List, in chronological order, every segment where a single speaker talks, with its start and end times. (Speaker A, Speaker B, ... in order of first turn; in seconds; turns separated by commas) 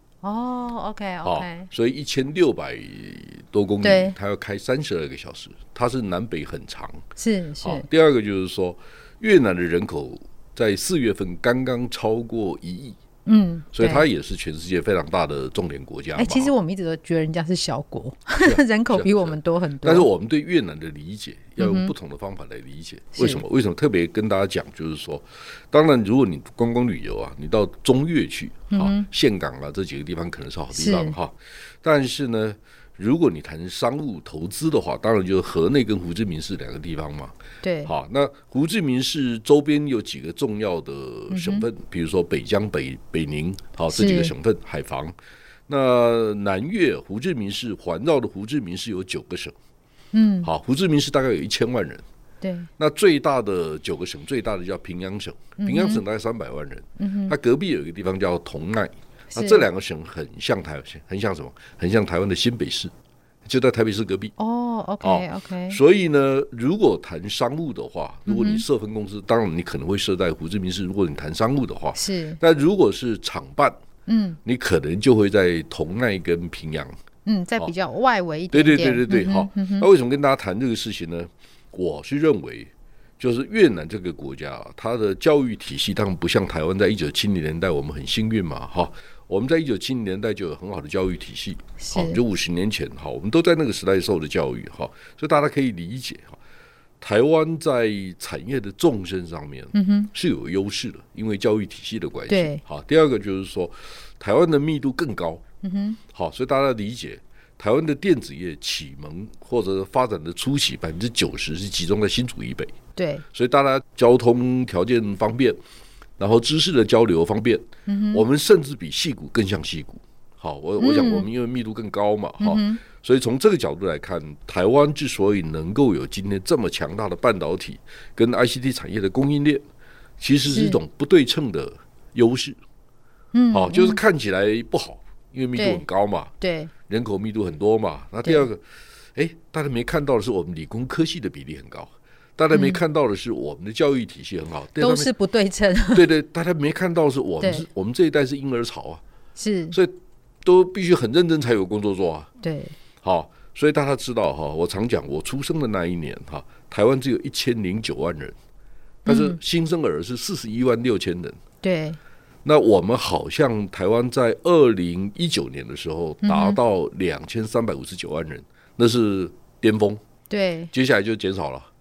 Speaker A: 0.2-1.7, Speaker B: 1.2-7.0, Speaker A: 3.8-4.1, Speaker A: 7.2-7.8, Speaker B: 7.6-13.0, Speaker A: 13.2-14.0, Speaker B: 13.7-16.5, Speaker A: 16.1-20.1, Speaker B: 18.4-37.3, Speaker A: 21.6-21.9, Speaker A: 23.1-23.4, Speaker A: 28.7-29.1, Speaker A: 30.7-31.1, Speaker A: 37.6-37.9, Speaker B: 37.9-45.1, Speaker A: 41.3-41.7, Speaker A: 43.9-44.3, Speaker B: 45.7-49.5, Speaker A: 50.1-50.5, Speaker B: 50.4-52.0, Speaker A: 52.4-52.7, Speaker B: 52.8-62.9, Speaker A: 55.6-56.0, Speaker A: 57.0-57.3, Speaker A: 59.3-59.6, Speaker B: 63.4-64.3, Speaker A: 64.4-65.8, Speaker B: 65.0-73.8, Speaker A: 68.3-68.6, Speaker A: 71.9-72.4, Speaker A: 74.1-74.4, Speaker B: 74.4-77.0, Speaker A: 77.2-79.9, Speaker B: 78.5-96.4, Speaker A: 91.8-92.2, Speaker B: 97.0-105.4, Speaker A: 99.7-100.1, Speaker A: 102.3-102.6, Speaker A: 105.6-106.0, Speaker B: 106.1-112.7, Speaker A: 113.0-113.2, Speaker B: 113.3-115.6, Speaker B: 116.2-129.6, Speaker A: 117.9-118.2, Speaker A: 120.8-121.3, Speaker A: 122.4-122.8, Speaker B: 130.2-132.6, Speaker A: 130.5-130.8, Speaker A: 133.3-134.0, Speaker B: 133.5-136.3, Speaker A: 135.6-135.8, Speaker A: 136.4-136.7, Speaker B: 136.9-138.6, Speaker B: 139.1-145.1, Speaker A: 142.5-142.8, Speaker A: 144.8-146.0, Speaker B: 145.9-149.0, Speaker A: 149.4-149.8, Speaker B: 149.7-152.3, Speaker A: 152.4-152.7, Speaker B: 153.0-158.3, Speaker B: 159.0-161.4, Speaker A: 159.1-159.4, Speaker A: 161.6-162.0, Speaker B: 162.4-170.0, Speaker A: 166.2-166.6, Speaker A: 170.3-170.7, Speaker B: 170.7-171.7